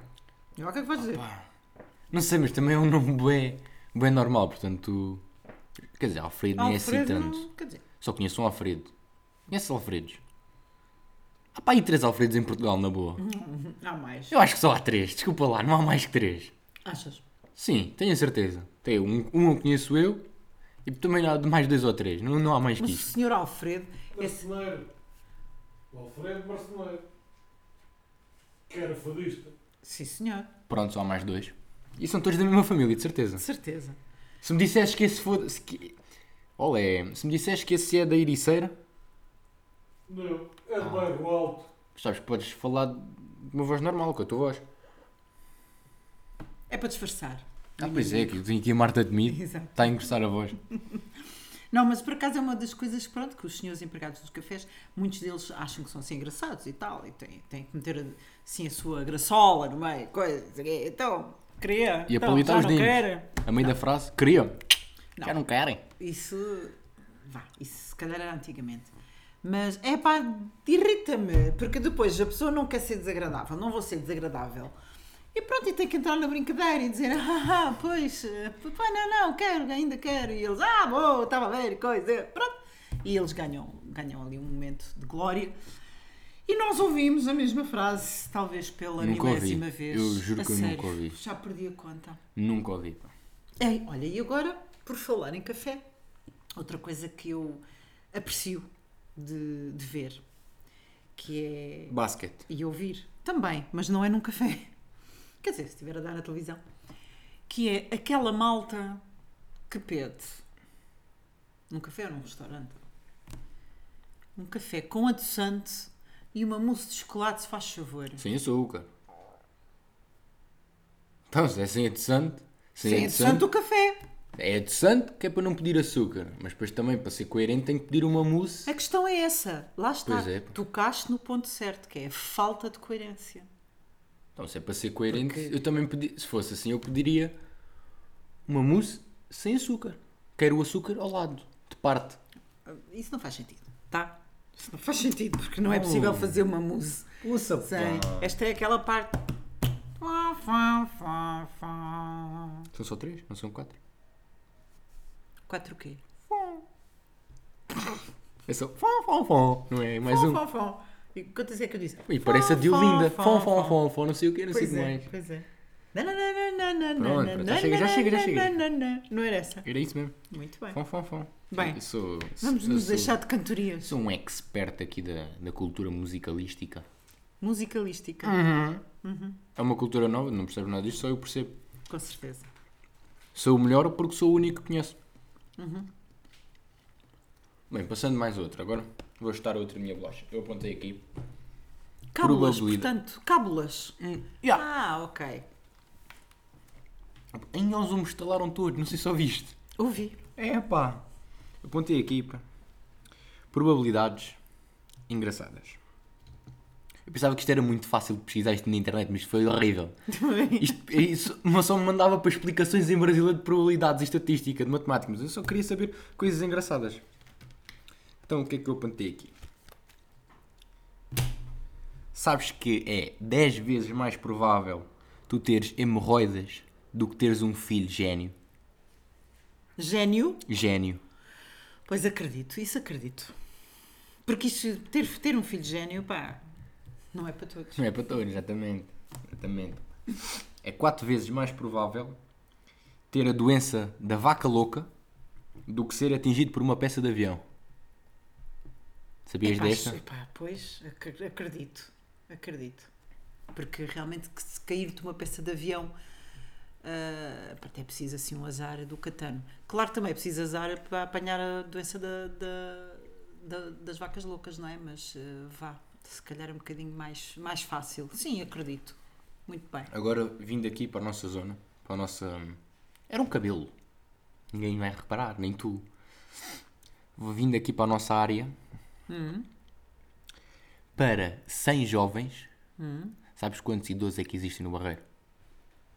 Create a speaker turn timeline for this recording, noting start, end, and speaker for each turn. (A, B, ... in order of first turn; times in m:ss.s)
0:00.6-0:01.2 A
0:01.0-0:01.5 B
0:02.1-0:05.2 B
0:06.0-0:07.5 B
0:06.6-0:07.8 A
0:08.0-0:08.9 B
0:09.5-0:10.2 B
0:11.5-0:13.2 B
0:13.2-0:14.4 A
0:14.3-0:16.5 B
0:16.9-0:17.2 A
0:17.6-0:20.2 B
0:20.8-0:23.1 B
0:22.8-0:24.4 A
0:24.2-0:24.9 C
0:25.9-0:27.0 C
0:28.7-0:29.6 C
0:29.8-0:30.5 A
0:30.7-0:33.4 B
0:33.4-0:34.0 A
0:34.4-0:36.0 B
0:36.6-0:38.8 B
0:40.1-0:41.7 C
0:40.8-0:41.1 B
0:42.0-0:44.6 B
0:46.7-0:48.4 A
0:47.8-0:50.6 B
0:49.2-0:50.1 A
0:51.7-1:03.4 A
1:02.1-1:05.8 B
1:06.0-1:08.9 A
1:09.4-1:14.7 A
1:15.3-1:25.6 A
1:26.5-1:32.2 A
1:29.0-1:31.2 B
1:32.4-1:33.1 B
1:33.6-1:35.8 A
1:36.6-1:40.2 A
1:41.2-1:42.0 A
1:41.9-1:42.4 B
1:42.5-1:44.7 A
1:45.4-1:46.6 A
1:47.5-1:49.0 A
1:49.7-1:50.4 A
1:51.7-1:52.8 A
1:54.4-1:58.2 A
1:58.2-1:58.9 B
2:01.3-2:03.4 B
2:02.8-2:04.0 A
2:04.4-2:08.7 B
2:08.7-2:13.5 A
2:10.1-2:10.5 B
2:14.4-2:17.4 B
2:15.1-2:15.5 A
2:18.5-2:22.2 B
2:22.7-2:29.3 A
2:25.6-2:26.4 B
2:27.2-2:28.3 B
2:30.0-2:32.7 A
2:32.7-2:33.8 B
2:35.5-2:36.0 A
2:38.5-2:40.4 B
2:40.0-2:43.8 A
2:42.1-2:45.1 B
2:44.5-2:49.7 A
2:47.0-2:48.6 B
2:49.6-2:50.2 B
2:50.3-2:50.8 A
2:50.7-2:53.2 B
2:51.5-2:51.8 A
2:52.4-2:54.0 A
2:53.8-2:56.9 B
2:57.4-2:58.4 A
2:58.2-2:58.8 B
2:59.0-2:59.4 A
2:59.6-3:01.6 B
3:01.9-3:02.5 A
3:03.3-3:05.0 B
3:05.6-3:05.9 A
3:07.7-3:11.1 B
3:12.1-3:14.0 A
3:12.2-3:12.9 B
3:14.0-3:14.6 B
3:14.5-3:15.5 A
3:17.3-3:19.6 B
3:19.8-3:20.3 A
3:20.4-3:21.0 B
3:21.6-3:22.4 B
3:23.5-3:24.4 B
3:25.1-3:25.8 B
3:27.1-3:30.0 B
3:30.1-3:30.8 A
3:30.6-3:37.0 B
3:38.3-3:39.3 B
3:42.1-3:48.4 B
3:49.8-3:50.4 A
3:50.5-3:51.0 B
3:51.9-3:53.3 A
3:54.3-3:56.4 A
3:57.1-3:57.8 A
3:57.8-4:02.2 B
4:03.1-4:04.9 B
4:05.7-4:07.4 B
4:09.3-4:10.0 B
4:09.4-4:12.9 A
4:13.5-4:15.9 A
4:16.8-4:29.9 A
4:29.9-4:33.7 B
4:34.5-4:35.9 B
4:37.2-4:38.6 B
4:39.1-4:39.5 A
4:41.0-4:42.5 B
4:42.8-4:43.2 A
4:43.3-4:45.0 B